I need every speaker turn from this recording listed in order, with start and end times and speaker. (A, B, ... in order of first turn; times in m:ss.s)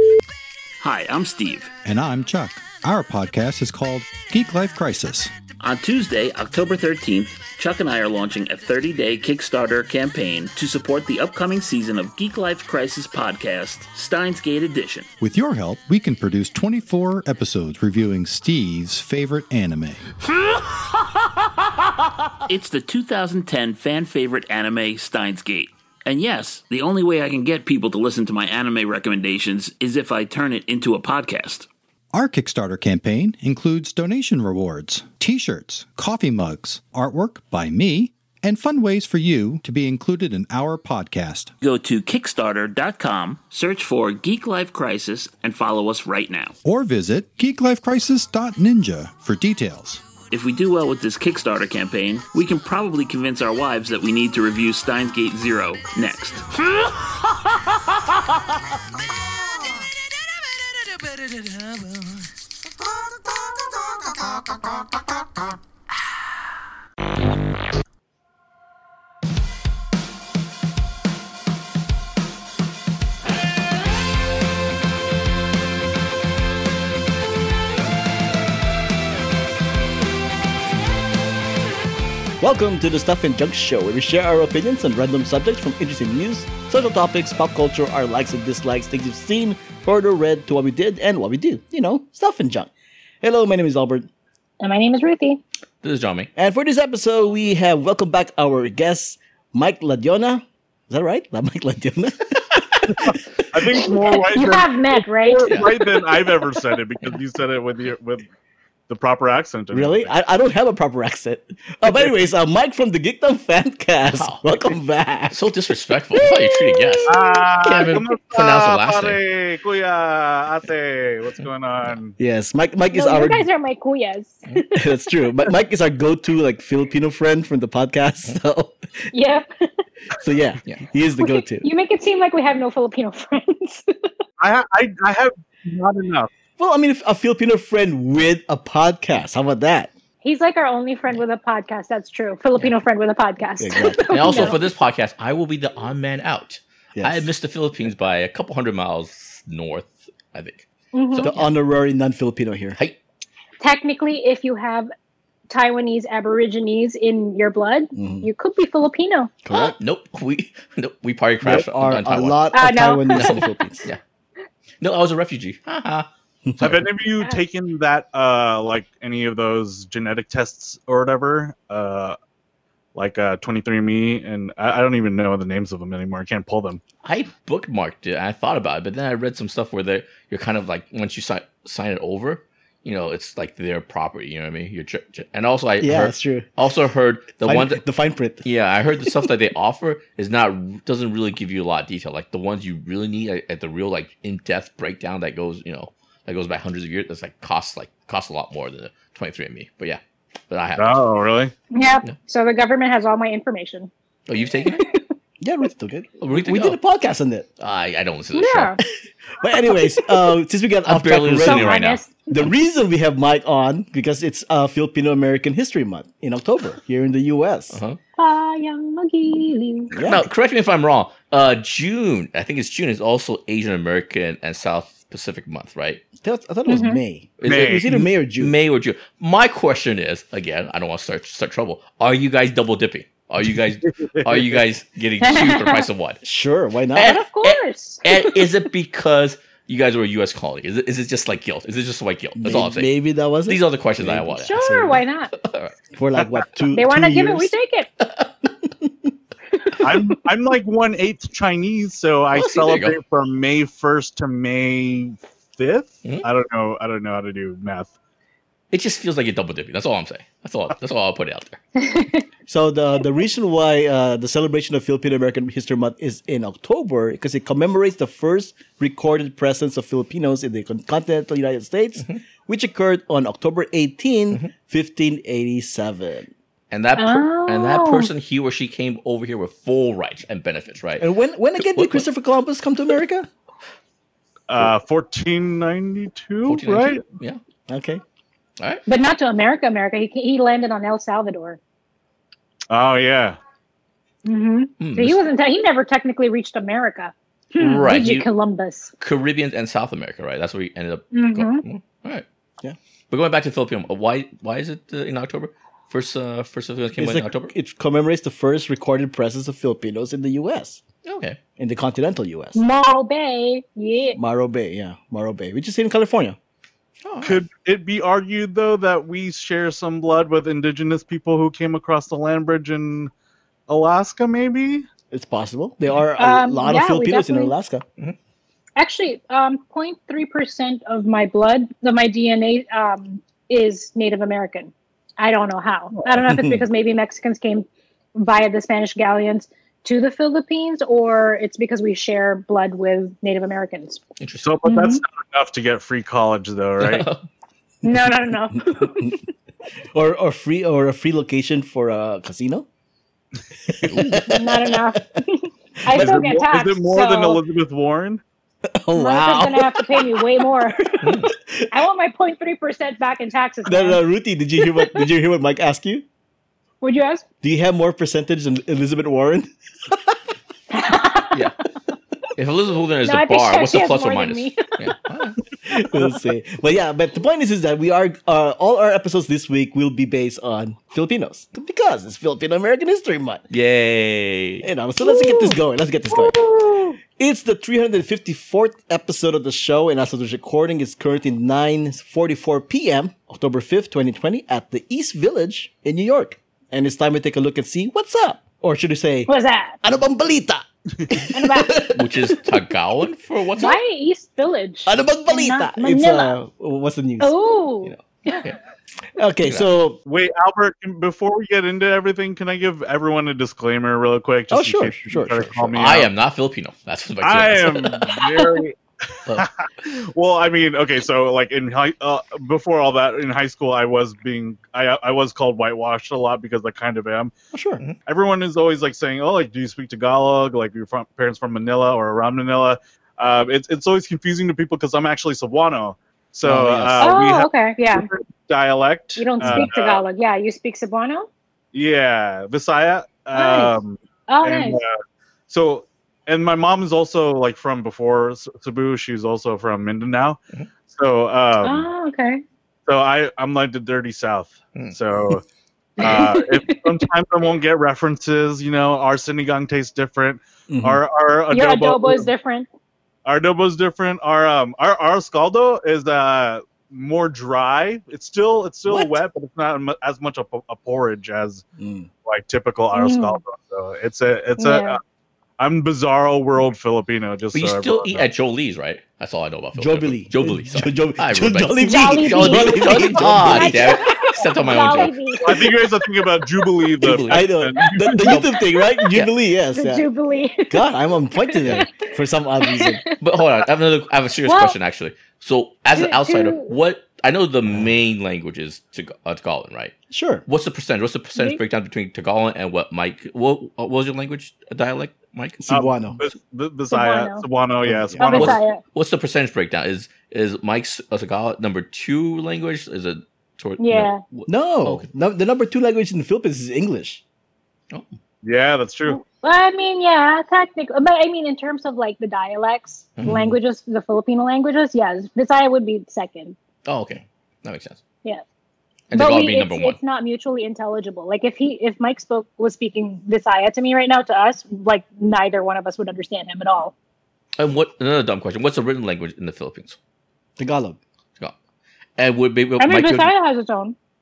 0:00.8-0:01.7 A
0:01.8-0:05.3 B
0:05.6-0:15.1 A
0:15.2-0:20.1 B
0:22.5-0:31.7 A
0:32.1-0:41.5 B
0:41.6-0:46.6 A
0:46.6-0:50.0 B
0:50.3-0:56.5 A
1:22.4-1:32.7 C
1:33.2-1:34.1 C
1:34.6-1:35.4 D
1:35.8-1:36.3 E
1:36.3-1:43.1 C
1:42.9-1:48.2 F
1:43.8-1:45.5 D
1:45.4-1:46.4 E
1:48.9-1:50.1 F
1:49.7-1:55.4 C
1:54.1-1:54.8 E
1:55.3-1:59.2 E
1:56.3-1:57.3 D
1:57.0-2:02.2 F
2:02.2-2:03.4 C
2:02.9-2:05.1 D
2:04.7-2:08.8 C
2:09.1-2:09.8 D
2:10.2-2:11.7 C
2:11.2-2:14.1 D
2:14.4-2:16.3 F
2:16.6-2:19.9 C
2:20.2-2:24.6 D
2:23.6-2:24.5 C
2:24.1-2:31.5 E
2:27.0-2:27.3 C
2:30.9-2:31.3 D
2:31.2-2:32.8 C
2:33.6-2:34.9 D
2:35.5-2:39.4 D
2:37.9-2:38.3 C
2:39.4-2:39.7 C
2:39.5-2:42.4 E
2:41.4-2:43.9 C
2:42.5-2:43.5 D
2:43.1-2:44.0 E
2:44.8-2:46.1 E
2:46.4-2:46.8 C
2:46.6-2:52.2 F
2:52.9-2:56.8 F
2:57.0-3:07.8 E
3:05.8-3:06.5 C
3:07.4-3:08.4 C
3:08.4-3:21.0 E
3:20.8-3:21.5 F
3:21.7-3:23.9 D
3:24.3-3:24.8 E
3:25.4-3:27.5 C
3:26.2-3:26.8 E
3:27.6-3:28.8 E
3:28.3-3:28.8 D
3:29.4-3:31.8 C
3:30.9-3:32.2 E
3:31.4-3:32.4 D
3:32.3-3:37.8 C
3:37.7-3:38.0 E
3:38.2-3:39.9 D
3:39.9-3:40.3 C
3:40.0-3:46.0 E
3:46.2-3:48.5 C
3:46.7-3:47.0 D
3:47.4-3:56.2 E
3:47.4-3:47.9 F
3:53.8-3:54.6 F
3:55.2-3:55.8 D
3:56.2-3:57.2 C
3:57.0-4:02.9 E
3:57.0-3:58.4 D
4:02.4-4:05.0 C
4:03.4-4:04.6 E
4:04.3-4:05.3 D
4:05.4-4:05.8 E
4:05.9-4:07.5 C
4:06.7-4:07.9 D
4:08.0-4:08.3 E
4:09.8-4:17.9 F
4:12.3-4:13.0 E
4:18.7-4:21.6 E
4:21.8-4:22.2 D
4:22.5-4:36.3 C
4:36.7-4:41.1 E
4:37.0-4:38.1 D
4:41.0-4:43.3 C
4:41.6-4:42.1 E
4:44.5-4:47.0 F
4:46.4-4:47.4 E
4:47.7-4:48.0 C
4:48.6-4:48.8 E
4:48.9-4:51.6 D
4:52.7-4:53.4 F
4:54.2-4:58.9 D
4:54.8-4:55.2 E
4:57.6-4:58.3 E
4:59.0-5:02.2 E
5:01.1-5:01.6 D
5:03.1-5:07.5 E
5:07.0-5:10.8 C
5:11.0-5:11.4 E
5:11.6-5:12.6 C
5:12.5-5:14.2 D
5:14.2-5:16.4 C
5:17.0-5:17.4 E
5:17.2-5:23.1 F
5:23.7-5:24.8 F
5:25.1-5:27.8 C
5:26.2-5:27.5 D
5:28.8-5:44.0 D
5:36.2-5:36.6 C
5:44.2-5:44.5 E
5:44.4-5:47.1 F
5:44.6-5:45.0 D
5:46.8-5:47.2 E
5:47.8-5:49.3 D
5:48.5-5:49.1 C
5:49.9-5:52.6 C
5:53.7-5:54.7 C
5:53.8-5:54.3 E
5:54.2-5:57.4 D
5:55.9-5:56.2 C
5:55.9-5:58.2 F
5:58.7-6:00.6 C
5:58.9-6:01.2 D
6:01.0-6:01.3 E
6:01.3-6:01.7 C
6:01.7-6:04.0 D
6:03.6-6:06.0 C
6:06.8-6:07.2 D
6:07.4-6:10.2 C
6:10.7-6:11.5 D
6:12.3-6:15.4 E
6:13.0-6:14.9 D
6:15.6-6:23.4 C
6:23.5-6:24.6 E
6:24.6-6:26.4 C
6:25.1-6:25.5 D
6:26.1-6:27.0 F
6:27.2-6:39.3 C
6:39.3-6:39.8 D
6:39.8-6:42.6 C
6:41.3-6:41.7 D
6:41.9-6:43.8 E
6:43.6-6:46.4 D
6:44.8-6:48.0 C
6:47.2-6:48.4 D
6:48.2-6:48.6 E
6:49.1-6:50.0 C
6:50.0-6:56.1 F
6:54.5-6:55.7 C
6:55.7-6:58.1 E
6:57.2-7:07.3 F
7:07.5-7:07.8 C
7:08.0-7:20.0 F
7:16.4-7:17.2 C
7:17.0-7:18.1 D
7:19.2-7:21.3 D
7:19.4-7:19.7 C
7:21.7-7:24.9 F
7:23.3-7:24.8 D
7:25.5-7:31.9 F
7:31.6-7:32.4 D
7:32.9-7:35.4 F
7:36.0-7:36.9 D
7:36.0-7:42.3 F
7:40.7-7:41.0 C
7:41.5-7:42.7 D
7:43.2-7:51.6 F
7:48.9-7:49.1 C
7:51.8-7:52.1 C
7:52.2-7:55.0 F
7:52.9-7:53.4 D
7:54.6-7:55.0 D
7:55.6-7:58.2 F
7:57.5-8:05.1 E
7:59.7-8:04.1 C
8:01.8-8:05.7 D
8:05.4-8:08.5 F
8:07.0-8:07.5 E
8:07.3-8:10.1 C
8:08.8-8:09.0 D
8:09.7-8:11.9 D
8:10.7-8:13.0 C
8:12.6-8:13.2 D
8:13.2-8:19.9 E
8:14.4-8:14.8 D
8:15.9-8:16.7 D
8:17.6-8:17.9 C
8:20.1-8:20.4 C
8:20.5-8:25.6 E
8:25.6-8:26.2 C
8:25.7-8:28.6 F
8:26.9-8:27.4 D
8:27.8-8:28.3 C
8:28.2-8:28.8 D
8:28.3-8:35.1 E
8:33.8-8:34.2 D
8:34.5-8:37.2 C
8:37.9-8:38.2 E
8:38.4-8:39.2 F
8:39.1-8:46.6 D
8:43.2-8:43.6 C
8:46.8-8:48.0 E
8:49.1-8:50.0 E
8:49.1-8:56.9 D
8:57.6-9:00.0 E
9:00.6-9:01.0 C
9:02.2-9:03.3 E
9:02.8-9:04.0 D